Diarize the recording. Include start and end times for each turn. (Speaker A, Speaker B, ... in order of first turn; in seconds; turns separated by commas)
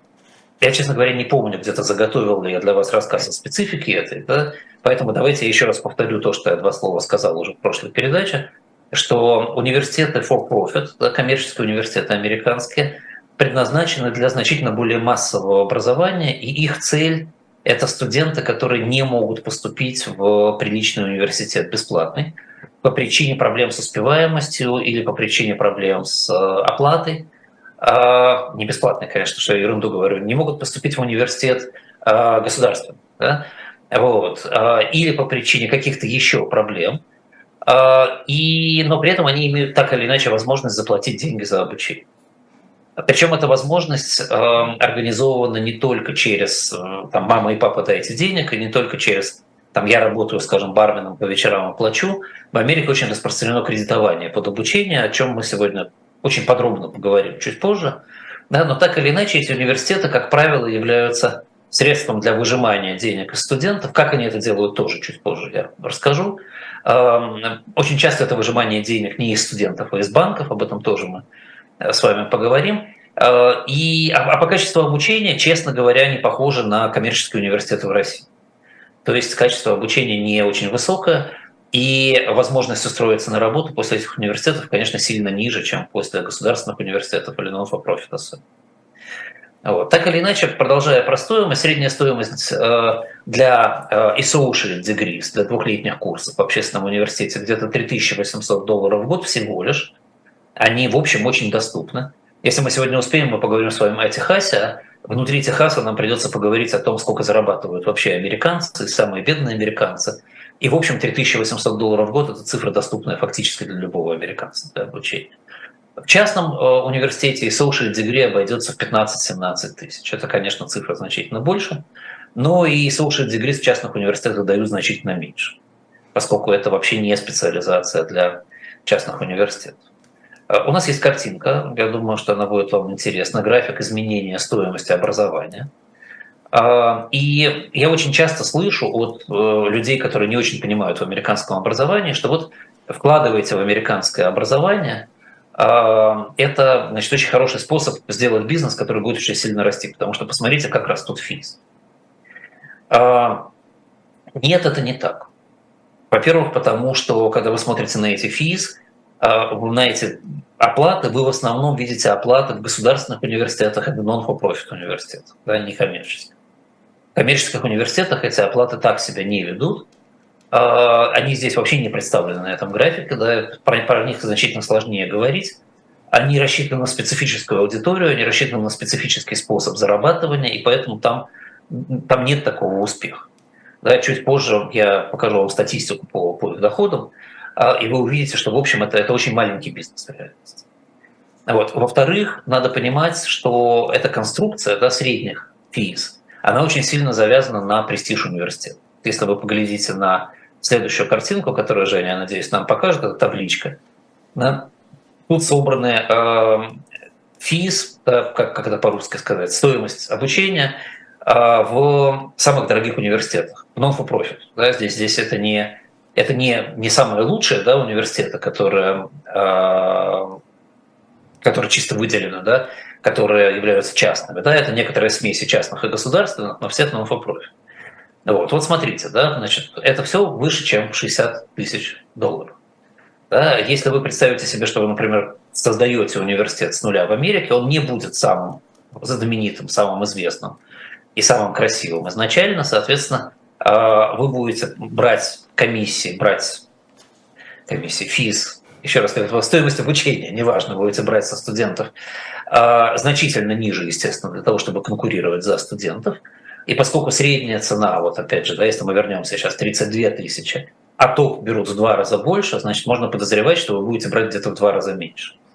Speaker A: 0.6-27.3, Speaker A: 27.8-37.0, Speaker A: 37.6-42.1, Speaker A: 43.0-71.2, Speaker A: 71.8-78.3, Speaker A: 79.0-88.4, Speaker A: 89.6-100.0, Speaker A: 100.6-115.3, Speaker A: 116.0-121.8, Speaker A: 122.3-125.6, Speaker A: 126.1-129.8, Speaker A: 130.5-135.7, Speaker A: 136.5-151.6, Speaker A: 152.9-153.5, Speaker A: 154.4-155.3, Speaker A: 156.1-166.3, Speaker A: 167.2-169.9, Speaker A: 170.5-175.6, Speaker A: 176.1-183.3, Speaker A: 183.8-190.6, Speaker A: 191.5-203.8, Speaker A: 204.3-204.7, Speaker A: 205.3-206.8, Speaker A: 207.4-220.4, Speaker A: 221.4-227.5, Speaker A: 228.2-232.6, Speaker A: 233.3-240.6, Speaker A: 241.2-246.7, Speaker A: 247.7-251.9, Speaker A: 252.5-265.4